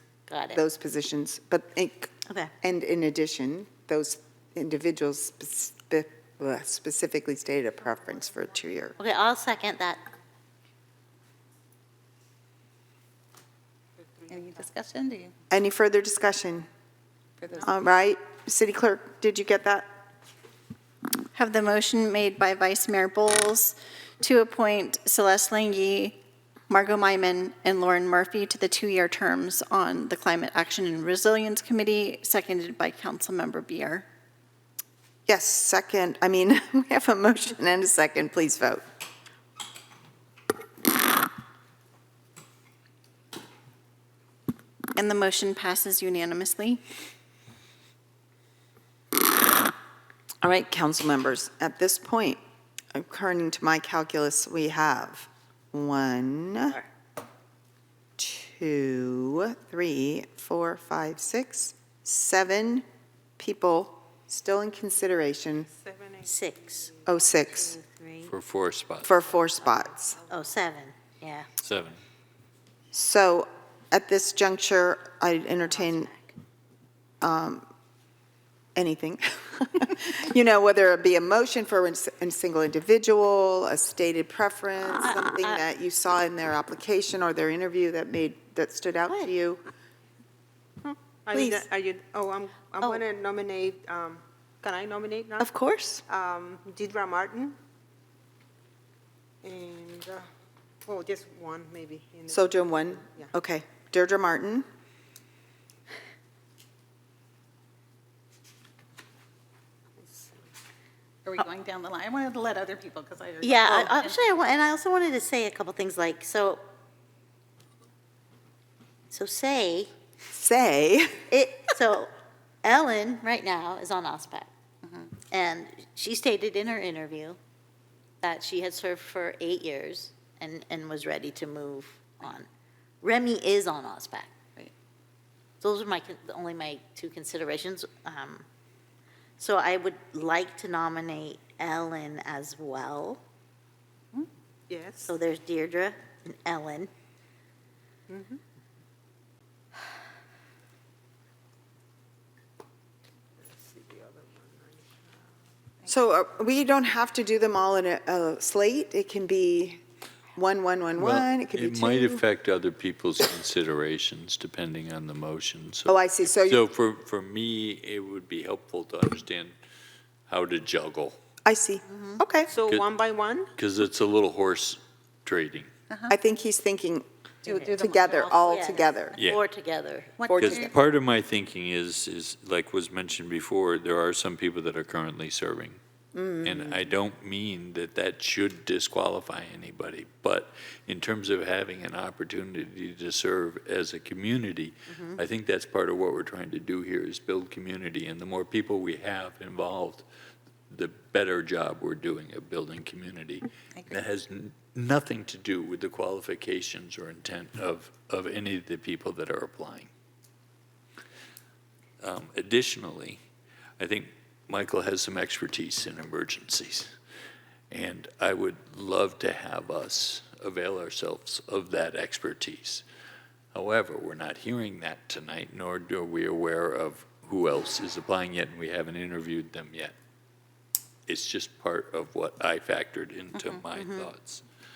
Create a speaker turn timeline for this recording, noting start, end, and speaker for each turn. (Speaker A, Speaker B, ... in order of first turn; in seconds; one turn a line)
Speaker A: 0.3-0.6
Speaker B: 0.5-9.0
Speaker A: 9.0-10.0
Speaker C: 14.2-14.6
Speaker D: 14.3-15.3
Speaker B: 15.5-16.7
Speaker D: 17.4-17.7
Speaker B: 17.6-19.9
Speaker E: 21.3-34.0
Speaker B: 35.3-38.8
Speaker E: 44.9-46.8
Speaker B: 50.4-52.4
Speaker B: 52.9-56.8
Speaker B: 58.2-62.8
Speaker B: 63.4-65.7
Speaker C: 65.7-67.4
Speaker A: 66.2-66.9
Speaker B: 67.0-67.7
Speaker A: 67.5-68.3
Speaker F: 68.2-69.1
Speaker B: 69.0-70.2
Speaker C: 69.3-70.3
Speaker A: 70.3-71.5
Speaker F: 71.6-72.0
Speaker B: 72.9-76.1
Speaker A: 75.7-76.3
Speaker B: 77.2-77.6
Speaker B: 78.7-89.6
Speaker A: 85.0-85.6
Speaker A: 89.1-89.3
Speaker C: 91.2-95.5
Speaker B: 91.3-91.6
Speaker B: 95.4-96.0
Speaker C: 96.1-97.6
Speaker C: 99.4-100.2
Speaker C: 100.8-103.3
Speaker B: 102.3-104.6
Speaker C: 110.0-110.4
Speaker D: 111.2-114.2
Speaker A: 113.4-116.6
Speaker A: 119.1-119.9
Speaker B: 120.3-121.2
Speaker A: 121.3-122.1
Speaker A: 122.6-124.5
Speaker D: 124.8-125.1
Speaker A: 125.3-127.4
Speaker A: 128.2-132.5
Speaker A: 133.0-134.3
Speaker A: 135.6-138.4
Speaker A: 139.4-143.2
Speaker C: 144.7-145.1
Speaker A: 145.1-146.9
Speaker C: 148.1-148.4
Speaker C: 153.4-155.2
Speaker B: 155.8-159.8
Speaker B: 160.3-162.2
Speaker F: 161.0-169.5
Speaker B: 165.9-166.6
Speaker F: 170.3-171.2
Speaker B: 171.4-172.5
Speaker A: 171.9-172.2
Speaker C: 172.5-173.5
Speaker F: 173.6-175.7
Speaker B: 176.1-179.2
Speaker D: 177.4-179.0
Speaker A: 178.5-180.1
Speaker F: 179.2-179.4
Speaker D: 180.2-180.7
Speaker B: 180.3-180.7
Speaker F: 180.3-185.8
Speaker B: 186.1-186.8
Speaker F: 186.4-200.0
Speaker A: 194.9-195.2
Speaker F: 200.7-209.9
Speaker F: 212.0-213.2
Speaker F: 213.8-216.9
Speaker F: 217.7-222.8
Speaker F: 223.5-229.9
Speaker F: 231.1-234.4
Speaker D: 233.3-233.6
Speaker A: 233.7-234.1